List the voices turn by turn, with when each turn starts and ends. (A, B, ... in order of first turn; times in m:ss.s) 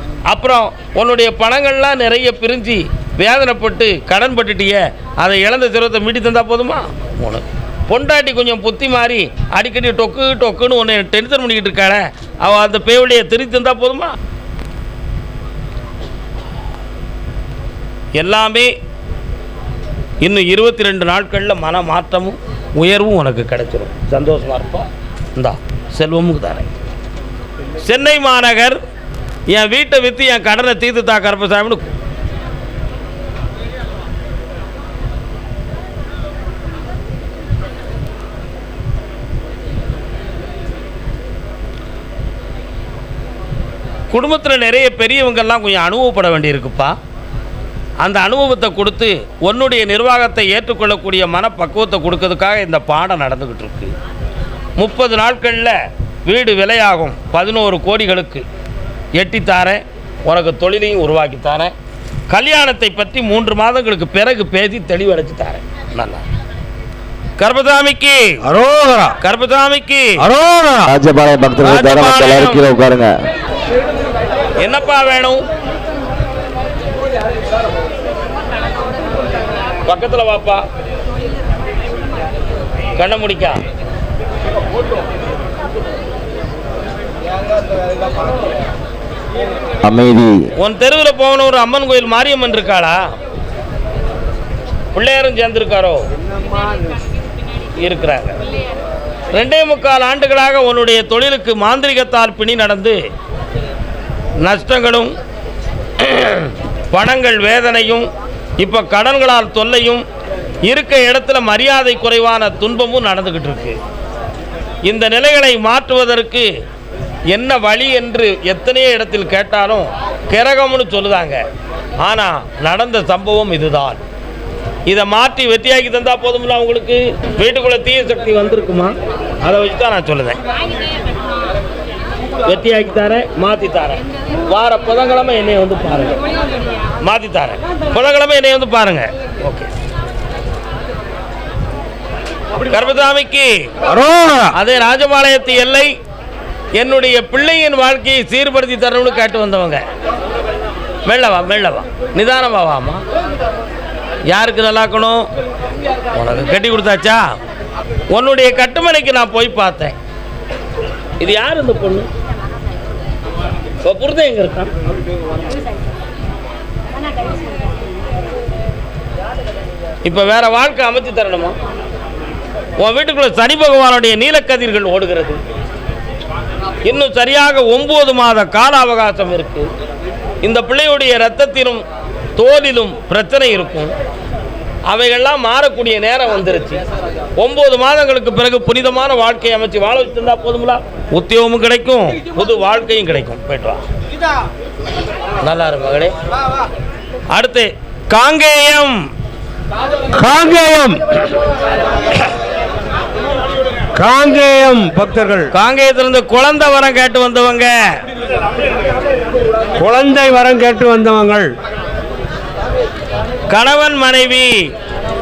0:00.3-0:14.1 A
0:18.2-0:18.7 A
0:20.2-0:26.6 A
0:27.8-0:28.8 A
0:29.5-0:31.8 A
0:44.1-0:47.0 A
0:48.0-0:53.9 A
0:54.8-0:55.8 A
0:56.3-0:58.4 A
0:59.2-1:01.7 A
1:02.3-1:06.2 A
1:07.4-1:08.4 A
1:08.4-1:09.2 B
1:09.2-1:10.2 A
1:10.2-1:10.9 B
1:10.8-1:13.1 C
1:11.6-1:12.7 A
1:14.6-1:15.4 A
1:19.8-1:20.6 A
1:23.0-1:23.6 A
1:29.8-1:30.4 C
1:30.6-1:33.0 A
1:34.9-1:36.0 A
1:37.8-1:38.4 A
1:39.3-1:43.0 A
1:44.4-1:45.1 A
1:46.0-1:48.1 A
1:48.6-1:50.0 A
1:50.6-1:53.8 A
1:54.8-1:56.5 A
1:57.3-2:01.4 A
2:02.0-2:04.0 A
2:04.9-2:10.4 A
2:12.4-2:16.2 A
2:17.0-2:19.7 A
2:22.7-2:23.5 A
2:23.9-2:24.5 B
2:24.5-2:25.9 A
2:26.8-2:29.8 A
2:31.1-2:33.0 A
2:34.3-2:35.3 A
2:36.1-2:37.2 A
2:38.1-2:39.9 A
2:41.2-2:42.1 A
2:43.8-2:44.7 A
2:50.0-2:51.6 A
2:52.8-2:55.4 A
2:56.8-2:59.7 A
3:00.4-3:01.8 A
3:02.4-3:03.9 A
3:04.9-3:06.8 A
3:07.4-3:13.8 A
3:15.4-3:16.1 A
3:17.3-3:19.0 A
3:20.2-3:21.2 B
3:24.0-3:25.5 B
3:25.5-3:27.9 A
3:29.8-3:31.5 B
3:33.5-3:34.7 A